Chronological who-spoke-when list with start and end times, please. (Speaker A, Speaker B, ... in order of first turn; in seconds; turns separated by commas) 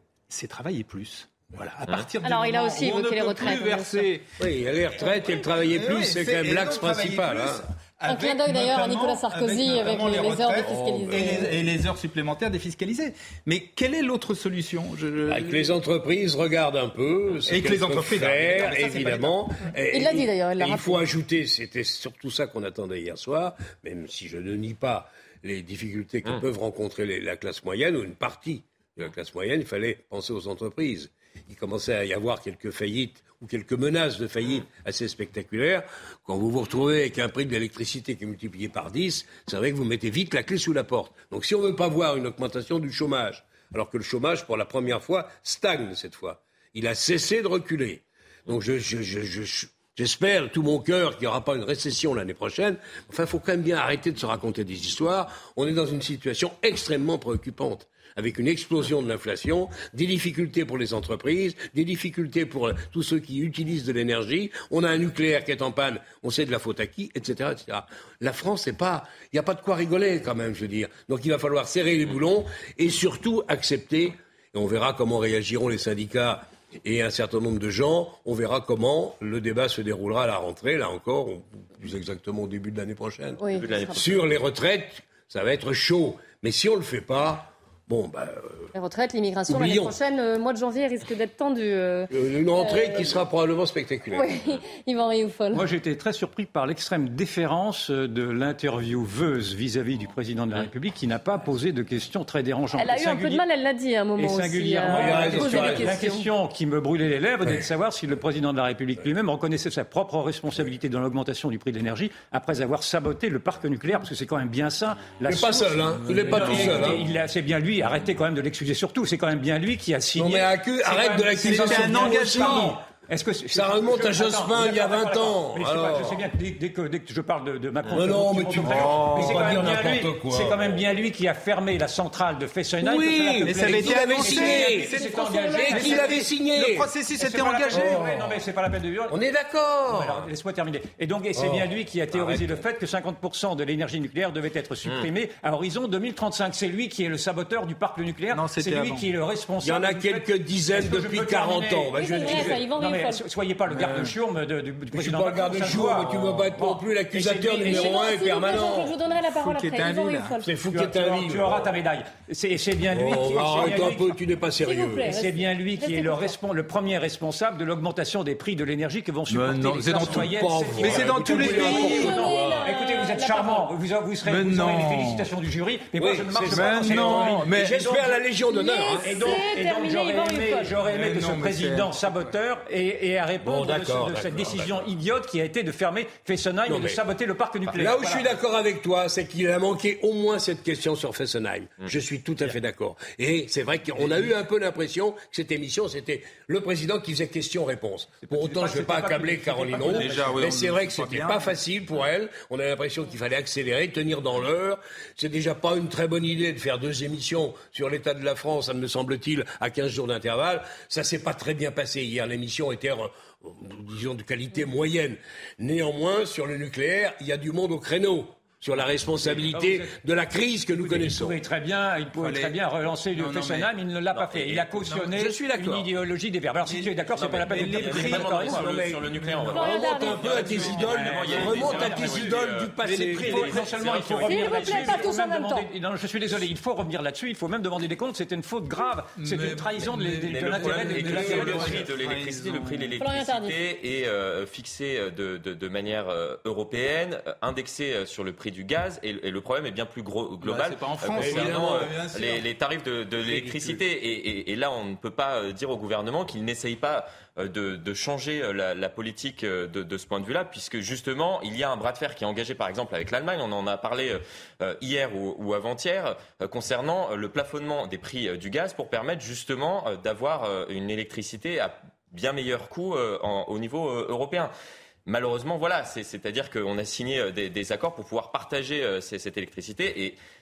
Speaker A: 0.3-4.3, Speaker B: 2.2-4.1, Speaker C: 4.4-7.6, Speaker A: 4.9-15.7, Speaker B: 8.1-11.4, Speaker C: 10.6-11.7, Speaker C: 15.2-83.4, Speaker A: 17.4-19.4, Speaker B: 19.9-21.1, Speaker B: 83.4-84.1, Speaker D: 83.5-84.2, Speaker C: 83.9-88.7, Speaker B: 88.7-93.2, Speaker C: 89.5-90.0, Speaker C: 92.1-94.6, Speaker B: 94.1-95.6, Speaker E: 95.5-103.4, Speaker B: 102.8-106.3, Speaker E: 104.2-136.3, Speaker C: 104.8-105.9, Speaker C: 115.2-117.0, Speaker A: 116.3-116.9, Speaker C: 120.1-122.8, Speaker A: 121.4-122.8, Speaker C: 123.5-126.3, Speaker C: 127.9-130.8, Speaker A: 129.2-129.4, Speaker C: 132.8-136.9, Speaker A: 133.4-138.1, Speaker E: 137.2-139.2, Speaker C: 137.7-138.4, Speaker C: 139.1-140.2, Speaker E: 139.9-158.0, Speaker C: 141.3-142.6, Speaker A: 148.3-149.1, Speaker C: 149.6-152.6, Speaker B: 151.9-153.2, Speaker A: 153.7-154.1, Speaker C: 154.9-159.0, Speaker B: 157.6-160.5, Speaker A: 159.2-160.3, Speaker C: 160.4-161.7, Speaker E: 160.7-164.1, Speaker C: 162.9-165.1, Speaker B: 164.6-166.3, Speaker E: 165.1-178.1, Speaker A: 169.3-172.7, Speaker C: 169.9-172.6, Speaker B: 171.4-173.7, Speaker A: 174.2-175.3, Speaker C: 175.9-179.4, Speaker A: 176.4-177.9, Speaker B: 178.5-180.7, Speaker E: 179.0-188.3, Speaker A: 180.7-182.1, Speaker C: 183.4-184.9, Speaker C: 186.7-187.0, Speaker C: 187.7-221.4, Speaker E: 198.2-200.4, Speaker A: 199.8-201.6, Speaker E: 219.5-220.0, Speaker E: 220.7-228.7, Speaker A: 222.2-222.6, Speaker A: 223.1-223.7, Speaker D: 224.1-224.7, Speaker C: 225.0-225.9, Speaker A: 226.7-232.3, Speaker D: 227.2-235.0, Speaker C: 228.0-233.9, Speaker B: 229.5-230.7, Speaker E: 230.7-241.8, Speaker B: 234.2-235.7, Speaker A: 239.2-243.0, Speaker D: 240.2-274.5, Speaker C: 240.8-241.9, Speaker B: 243.0-243.6, Speaker A: 250.4-252.4, Speaker C: 251.1-252.0, Speaker C: 253.2-253.8, Speaker D: 275.1-280.2